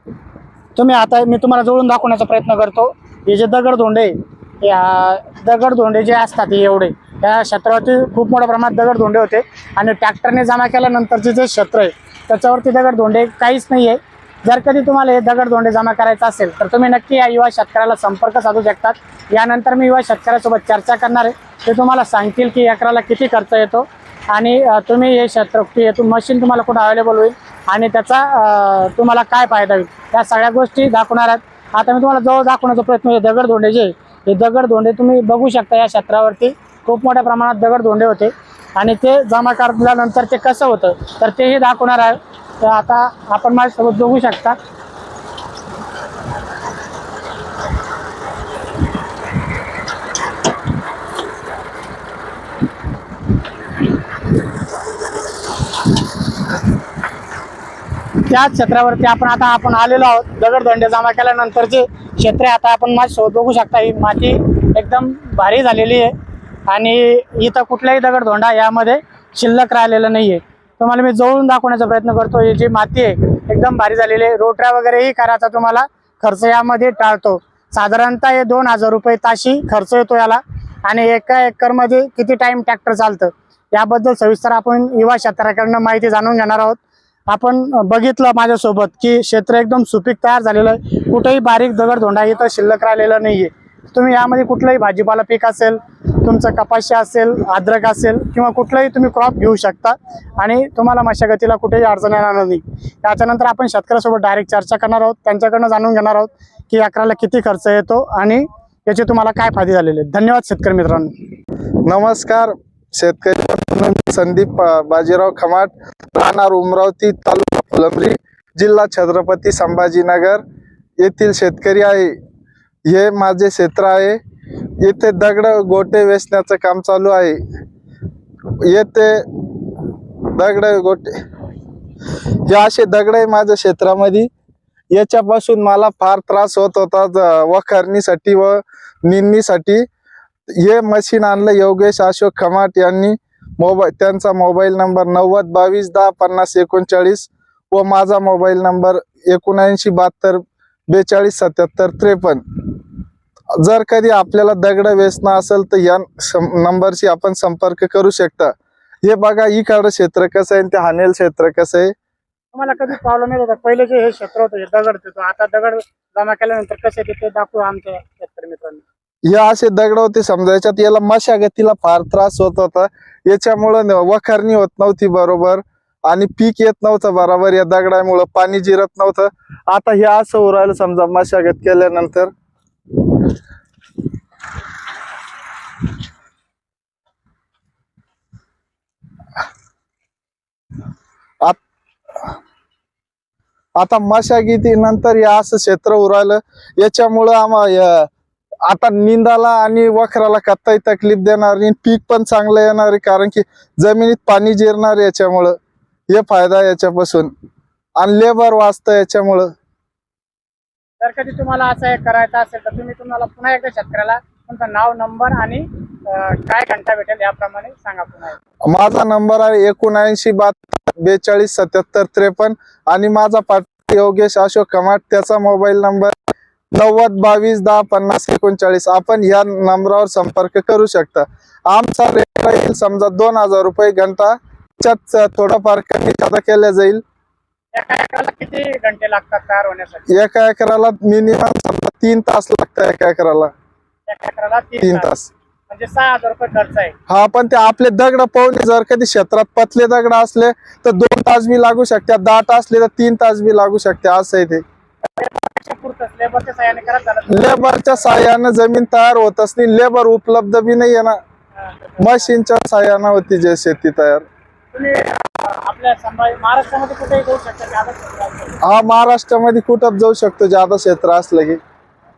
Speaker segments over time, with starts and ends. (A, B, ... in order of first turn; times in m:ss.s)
0:00.8-0:44.6 A
0:58.2-1:06.1 A
1:06.7-1:51.1 A
1:51.8-2:00.4 B
2:01.0-2:02.2 B
2:02.9-2:04.2 B
2:04.8-2:07.4 B
2:08.6-2:11.2 B
2:12.4-2:14.3 B
2:14.9-2:19.9 B
2:20.5-2:32.6 B
2:33.6-2:41.9 B
2:42.5-2:48.8 A
2:49.2-3:02.3 B
3:13.8-3:18.1 B
3:18.6-3:25.6 B
3:26.1-3:27.3 B
3:28.0-3:29.5 B
3:31.0-3:38.4 A
3:38.7-3:46.2 B
3:46.7-3:57.0 B
3:57.8-4:00.1 A
4:00.1-4:03.5 B
4:04.1-4:05.1 A
4:04.8-4:05.3 B
4:05.7-4:06.9 A
4:07.1-4:14.6 B
4:15.0-4:17.6 A
4:17.3-4:21.2 B
4:21.6-4:22.3 A
4:22.0-4:24.2 B
4:24.7-4:28.6 A
4:28.6-4:31.6 B